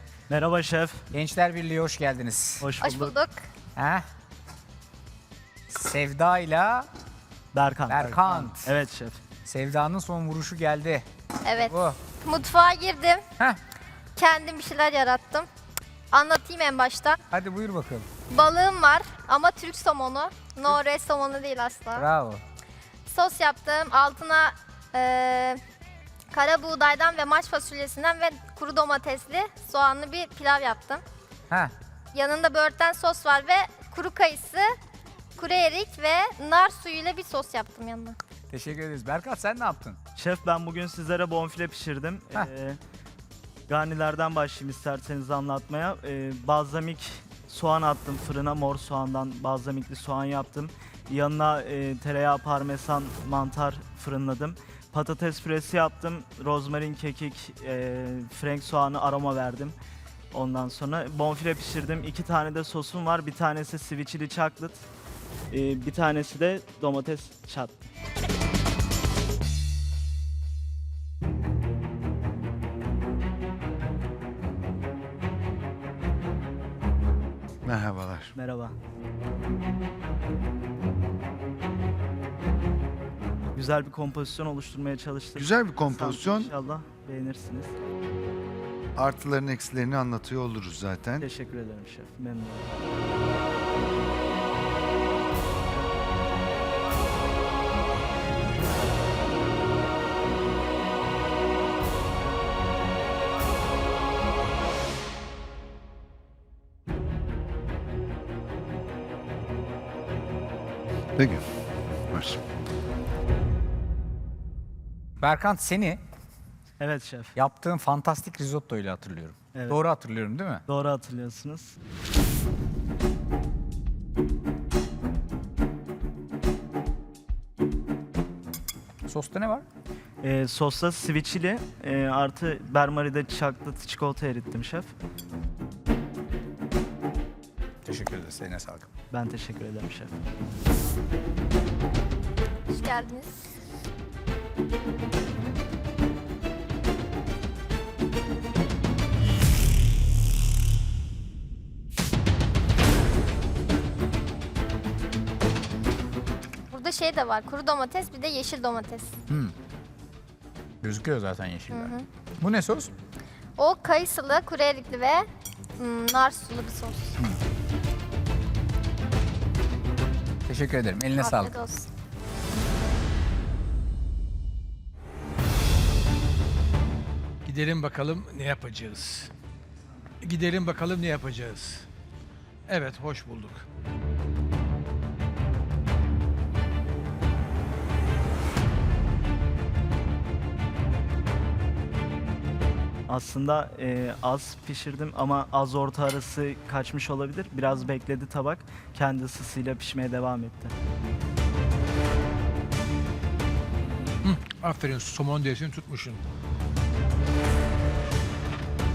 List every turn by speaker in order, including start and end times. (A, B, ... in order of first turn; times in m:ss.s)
0:00.3-0:01.0 A
0:01.1-0:02.7 B
0:02.6-0:03.1 A
0:02.8-0:03.4 C
0:03.7-0:04.0 B
0:05.7-0:06.9 B
0:07.5-0:09.2 A
0:07.9-0:08.7 B
0:09.4-0:11.0 B
0:11.4-0:13.2 C
0:11.6-0:12.0 B
0:14.2-0:15.4 C
0:16.1-0:17.2 C
0:17.3-0:18.1 B
0:18.3-0:22.1 C
0:22.0-0:22.4 B
0:23.1-0:25.6 C
0:26.3-0:31.0 C
0:32.1-0:34.6 C
0:35.4-0:38.2 C
0:38.5-0:40.0 B
0:40.2-0:42.8 A
0:43.7-0:59.8 A
1:00.3-1:04.8 A
1:05.5-1:07.8 A
1:17.6-1:18.3 D
1:18.3-1:18.8 A
1:23.5-1:27.7 A
1:25.4-1:26.5 D
1:29.0-1:31.3 D
1:31.2-1:32.7 A
1:51.2-1:51.4 D
1:52.1-1:52.4 D
1:55.2-1:56.0 B
1:56.8-1:57.3 A
1:57.4-2:00.6 B
1:59.5-1:59.8 A
2:00.7-2:01.8 A
2:09.0-2:09.6 B
2:10.2-2:14.9 A
2:17.8-2:18.9 B
2:19.1-2:20.2 A
2:22.7-2:23.4 C
2:36.7-2:39.1 C
2:40.8-2:41.9 B
2:41.7-2:42.0 C
2:42.4-2:42.9 B
2:42.6-2:42.8 E
2:43.6-2:45.2 C
2:45.8-2:47.2 C
2:50.4-2:51.3 B
2:51.1-2:51.9 C
2:57.4-2:59.3 E
3:00.2-3:01.8 E
3:02.7-3:03.6 E
3:13.1-3:20.7 A
3:24.2-3:26.2 E